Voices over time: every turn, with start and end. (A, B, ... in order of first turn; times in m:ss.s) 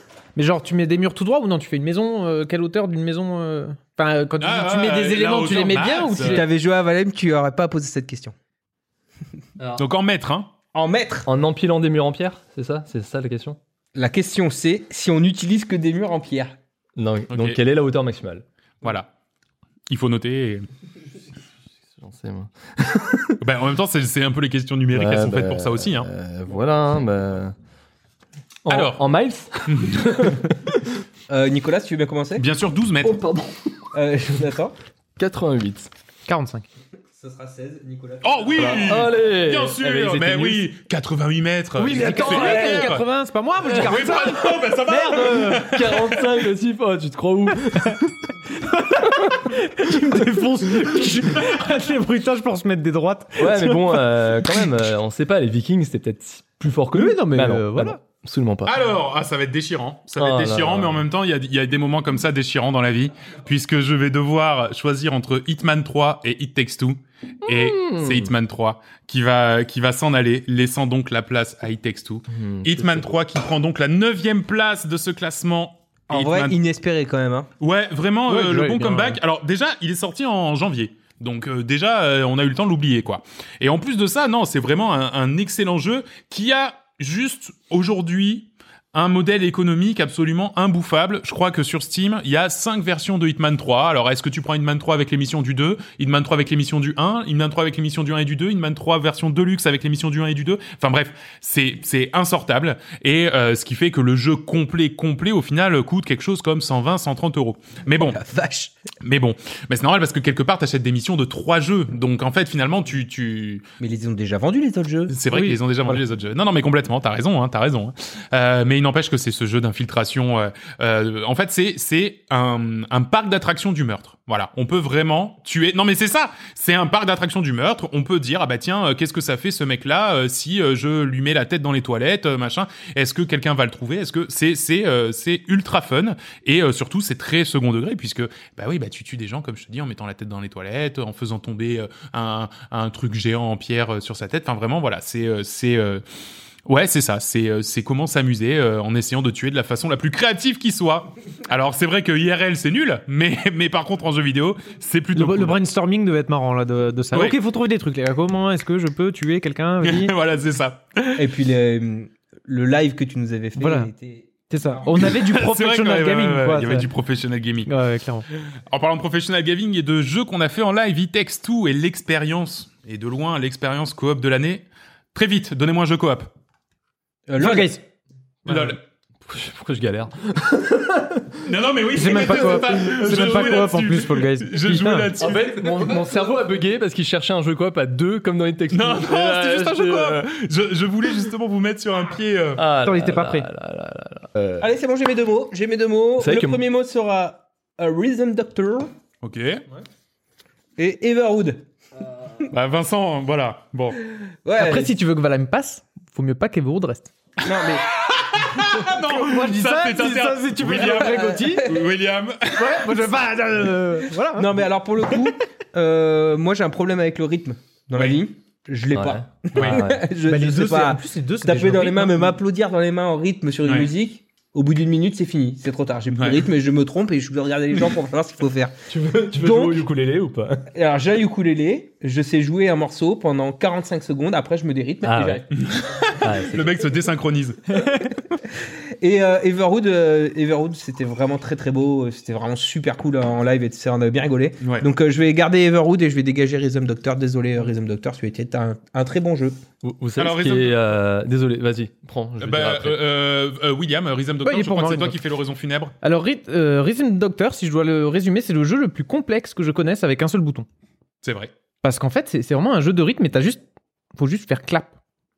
0:00.4-0:06.4 A
0:04.4-0:06.4 B
0:06.2-0:08.3 C
0:09.6-0:09.8 D
0:09.8-0:10.5 B
0:10.7-0:11.3 C
0:11.2-0:13.6 D
0:13.9-0:16.5 C
0:17.0-0:18.4 D
0:17.3-0:17.6 B
0:18.8-0:19.1 B
0:19.9-0:20.7 B
0:21.9-0:23.4 D
0:23.4-0:26.1 B
0:24.9-0:27.5 D
0:28.6-0:30.9 D
0:28.7-0:29.0 B
0:29.7-0:30.5 B
0:31.3-0:32.4 C
0:32.4-0:33.2 B
0:33.0-0:33.6 D
0:33.9-0:34.7 C
0:35.2-0:35.9 D
0:36.3-0:36.6 A
0:37.2-0:39.0 C
0:38.2-0:43.0 B
0:38.6-0:40.7 D
0:41.8-0:45.7 A
0:41.8-0:43.0 D
0:43.6-0:44.0 D
0:43.7-0:46.2 B
0:45.0-0:48.1 D
0:48.5-0:54.6 A
0:53.4-0:58.8 D
0:56.9-0:58.0 A
0:58.6-1:16.6 B
1:00.2-1:01.0 D
1:07.4-1:08.3 D
1:12.3-1:13.1 D
1:16.1-1:17.5 C
1:17.6-1:48.2 B
1:18.3-1:19.2 A
1:48.0-1:48.7 C
1:49.0-1:53.6 B
1:53.8-1:55.1 C
1:55.1-2:26.0 B
1:55.3-1:56.0 A
2:26.6-2:35.6 B
2:35.1-2:40.1 A
2:39.8-2:41.3 B
2:41.2-2:44.8 C
2:43.6-2:43.9 A
2:44.5-2:46.9 A
2:44.9-2:47.7 B
2:47.6-2:48.2 A
2:48.3-2:56.3 B
2:57.3-2:57.7 C
2:57.4-2:57.8 A
2:58.4-2:58.8 A
2:58.5-2:58.8 B
2:59.2-3:01.4 D
3:01.4-3:06.0 B
3:01.9-3:05.1 A
3:05.2-3:10.2 D
3:08.7-3:12.6 B
3:12.6-3:14.5 D
3:12.8-3:13.5 A
3:14.6-3:18.9 C
3:16.2-3:16.6 D
3:19.2-3:19.6 B
3:20.8-3:21.6 C
3:22.5-3:24.0 B
3:24.4-3:24.9 C
3:24.6-3:27.1 A
3:27.4-3:27.8 C
3:27.6-3:33.0 B
3:28.8-3:31.7 A
3:30.7-3:31.8 C
3:32.5-3:34.5 A
3:34.4-3:48.8 C
3:38.9-3:40.1 D
3:39.5-3:39.8 B
3:40.2-3:42.4 A
3:43.6-3:43.9 B
3:46.1-3:46.4 B
3:48.9-3:50.7 D
3:49.3-3:49.8 C
3:50.7-3:55.5 C
3:55.0-3:55.4 D
3:55.5-3:57.8 B
3:56.2-3:56.8 D
3:58.6-4:09.6 C
4:04.6-4:04.9 B
4:09.8-4:13.0 D
4:10.2-4:10.8 B
4:12.4-4:15.9 B
4:14.4-4:15.2 A
4:16.0-4:20.6 A
4:21.2-4:21.5 B
4:21.8-4:23.6 A
4:24.2-4:24.9 A